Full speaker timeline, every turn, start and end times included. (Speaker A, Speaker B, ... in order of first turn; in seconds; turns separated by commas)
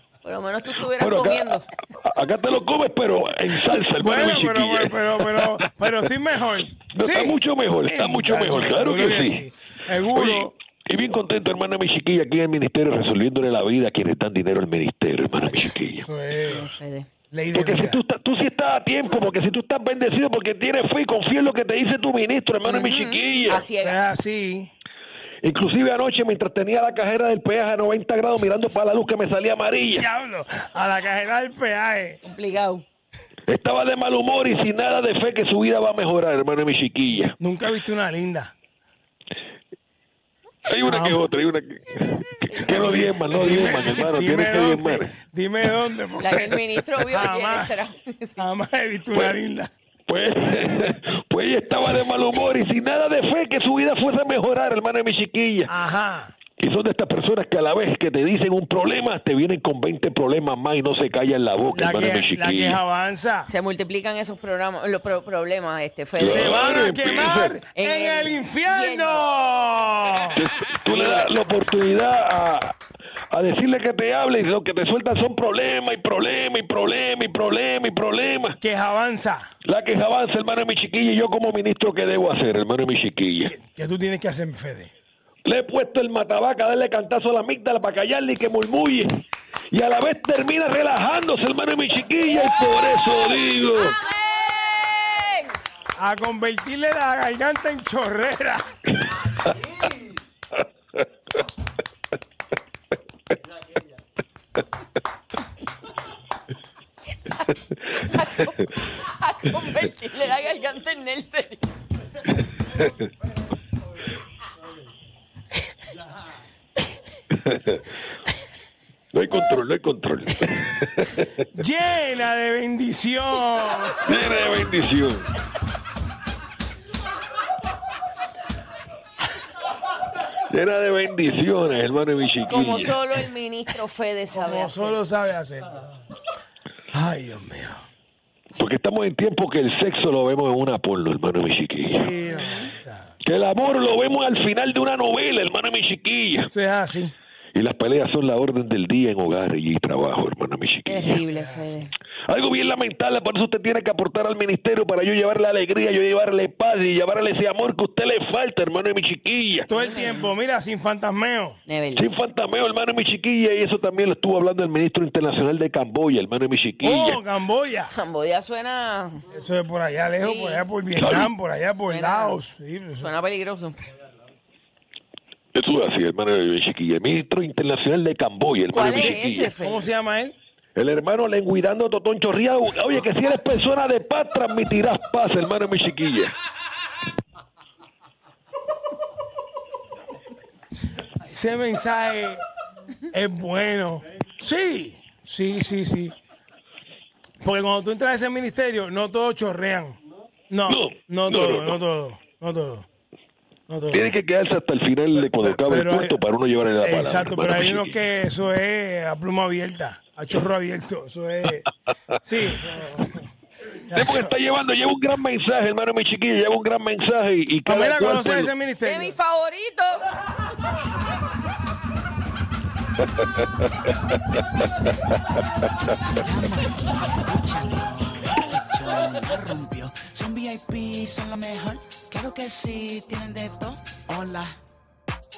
Speaker A: 0.2-1.7, Speaker B: 1.0-5.6, Speaker C: 3.9-10.5, Speaker B: 6.8-9.4, Speaker B: 10.1-16.1, Speaker C: 15.3-16.7, Speaker A: 16.4-17.1, Speaker C: 17.3-18.0, Speaker B: 17.5-23.6, Speaker A: 22.6-24.1, Speaker C: 23.8-24.7, Speaker B: 25.4-30.1, Speaker C: 29.9-32.2, Speaker A: 32.2-32.8, Speaker B: 33.5-37.4, Speaker C: 37.4-38.5, Speaker B: 40.6-45.1, Speaker C: 40.8-41.2, Speaker A: 42.5-43.0, Speaker C: 42.6-47.9, Speaker A: 46.2-48.5, Speaker C: 48.4-49.7, Speaker B: 50.1-55.7, Speaker C: 55.7-56.3, Speaker B: 56.6-62.8, Speaker C: 61.7-63.5, Speaker A: 63.5-66.7, Speaker B: 66.2-67.6, Speaker C: 66.2-70.4, Speaker A: 67.7-69.3, Speaker B: 70.3-72.8, Speaker A: 70.9-71.3, Speaker B: 73.3-78.6, Speaker C: 78.6-79.5, Speaker B: 79.6-83.5, Speaker C: 83.5-84.9, Speaker B: 85.4-94.0, Speaker A: 93.8-95.5, Speaker C: 96.0-98.6, Speaker A: 107.3-111.6, Speaker B: 117.3-117.8, Speaker B: 119.1-121.3, Speaker C: 121.5-124.0, Speaker B: 124.0-125.3, Speaker B: 130.5-133.2, Speaker A: 132.5-135.0, Speaker C: 134.3-135.8, Speaker C: 136.9-137.8, Speaker B: 138.6-142.1, Speaker C: 141.9-143.1, Speaker A: 142.3-142.7, Speaker B: 143.2-146.5, Speaker C: 146.5-147.1, Speaker B: 147.5-151.2, Speaker A: 150.9-151.9, Speaker C: 151.3-151.6, Speaker B: 152.3-159.7, Speaker C: 159.7-161.6, Speaker A: 159.7-160.3, Speaker A: 161.7-162.1, Speaker B: 161.9-167.2, Speaker C: 166.8-167.9, Speaker A: 167.9-169.2, Speaker C: 169.3-173.1, Speaker A: 170.2-170.6, Speaker B: 170.9-171.3, Speaker A: 171.8-172.4, Speaker A: 173.0-173.8, Speaker B: 175.5-179.5, Speaker A: 178.7-179.8, Speaker C: 179.6-180.3, Speaker B: 180.8-186.3, Speaker C: 191.2-192.4, Speaker C: 193.1-196.2, Speaker C: 197.4-200.0, Speaker C: 200.5-202.8, Speaker B: 200.7-201.8, Speaker C: 203.7-204.2, Speaker B: 203.9-207.9, Speaker C: 205.2-206.2, Speaker C: 206.8-211.7, Speaker C: 212.2-213.3, Speaker C: 213.9-214.3, Speaker B: 213.9-218.5, Speaker C: 217.7-219.2, Speaker A: 218.8-220.1, Speaker D: 226.1-234.6